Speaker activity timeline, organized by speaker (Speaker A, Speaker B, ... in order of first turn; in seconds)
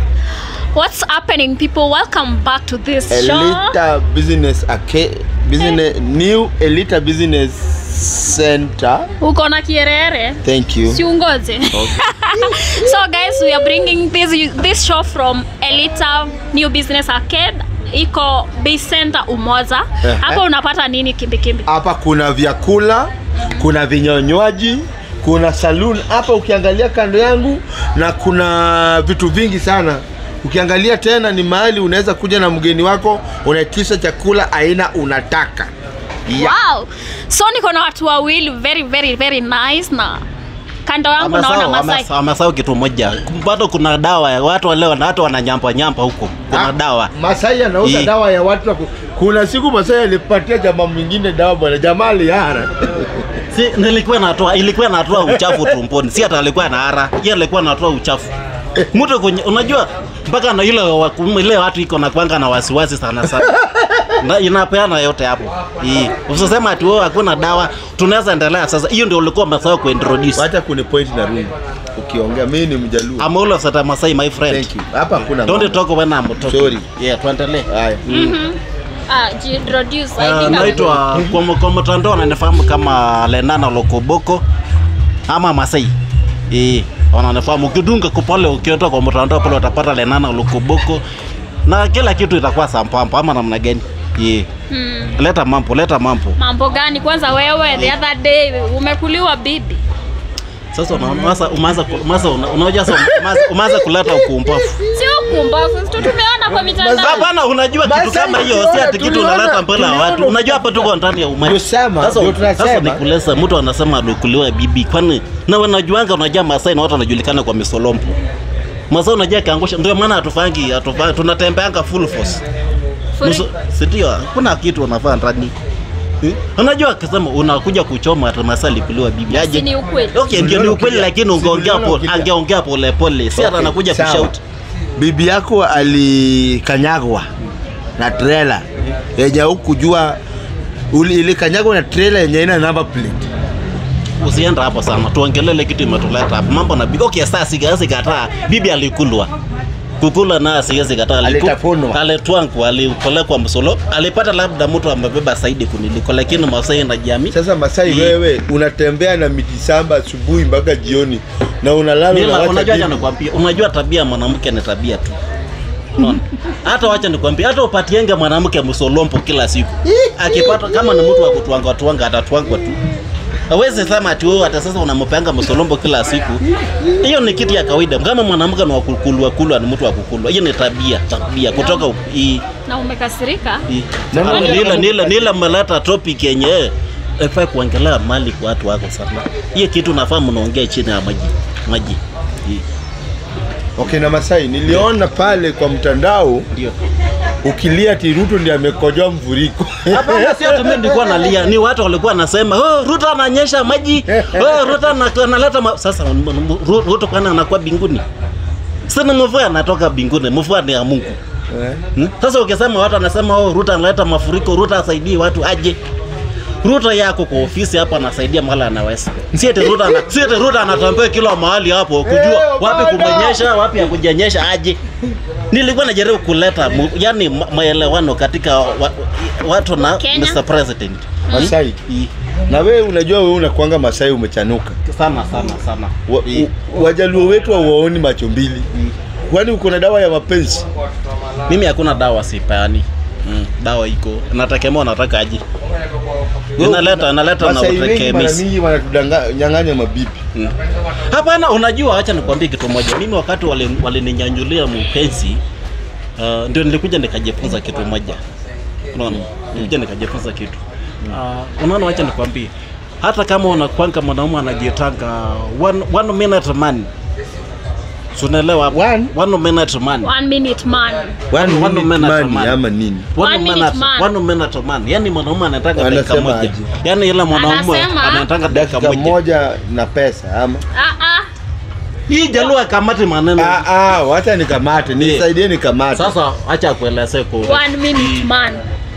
Speaker A: 0.7-3.7, 9.2-21.7, 36.3-40.2, 40.8-42.1, 78.1-80.9, 94.7-95.2, 96.3-99.8, 104.9-107.2, 123.2-123.5, 129.3-130.2, 181.5-181.8, 182.6-183.7, 184.2-184.7, 229.8-230.4, 231.3-231.5, 270.0-271.2, 273.2-274.1, 277.3-278.3, 280.7-281.2, 287.4-288.6
Speaker B: 3.1-9.1, 10.4-11.0, 11.7-12.6, 20.0-20.4, 21.7-35.7, 46.5-53.3, 55.3-55.7, 63.3-64.2, 70.3-73.3, 74.5-75.8, 76.4-76.8, 77.7-78.0, 80.4-81.3, 102.9-105.2, 106.5-107.3, 107.8-110.9, 111.4-113.0, 130.3-132.3, 133.3-134.3, 135.0-137.3, 138.0-138.6, 139.2-140.2, 140.9-143.2, 151.2-152.0, 157.3-163.0, 169.8-171.0, 176.6-177.0, 184.1-185.4, 193.8-196.5, 197.4-201.1, 204.1-204.8, 211.5-211.8, 219.6-220.0, 222.0-223.5, 231.3-231.8, 232.5-234.8, 236.1-238.7, 239.3-240.6, 246.6-250.2, 259.1-259.7, 268.7-269.1, 271.3-273.1, 275.8-276.7, 278.5-280.6, 283.4-286.2
Speaker C: 41.2-47.1, 47.8-48.1, 53.5-58.3, 58.9-63.6, 64.2-70.5, 73.2-74.7, 75.3-78.4, 80.2-84.4, 85.3-85.9, 86.5-91.0, 91.7-94.5, 95.2-96.4, 100.7-104.8, 107.0-118.2, 118.9-122.4, 123.2-125.5, 126.2-134.4, 144.2-149.3, 150.0-157.3, 157.8-158.2, 162.1-165.2, 165.9-172.8, 173.5-176.4, 177.0-182.4, 183.7-192.6, 199.9-208.0, 208.9-211.2, 211.9-215.8, 216.6-224.8, 225.5-232.1, 234.8-236.5, 241.5-245.4, 246.6-248.4, 251.1-255.4, 256.2-258.2, 258.9-262.5, 263.0-266.9, 268.1-270.1, 271.4-272.6, 273.1-279.2, 282.1-283.7, 285.0-285.3, 285.9-288.2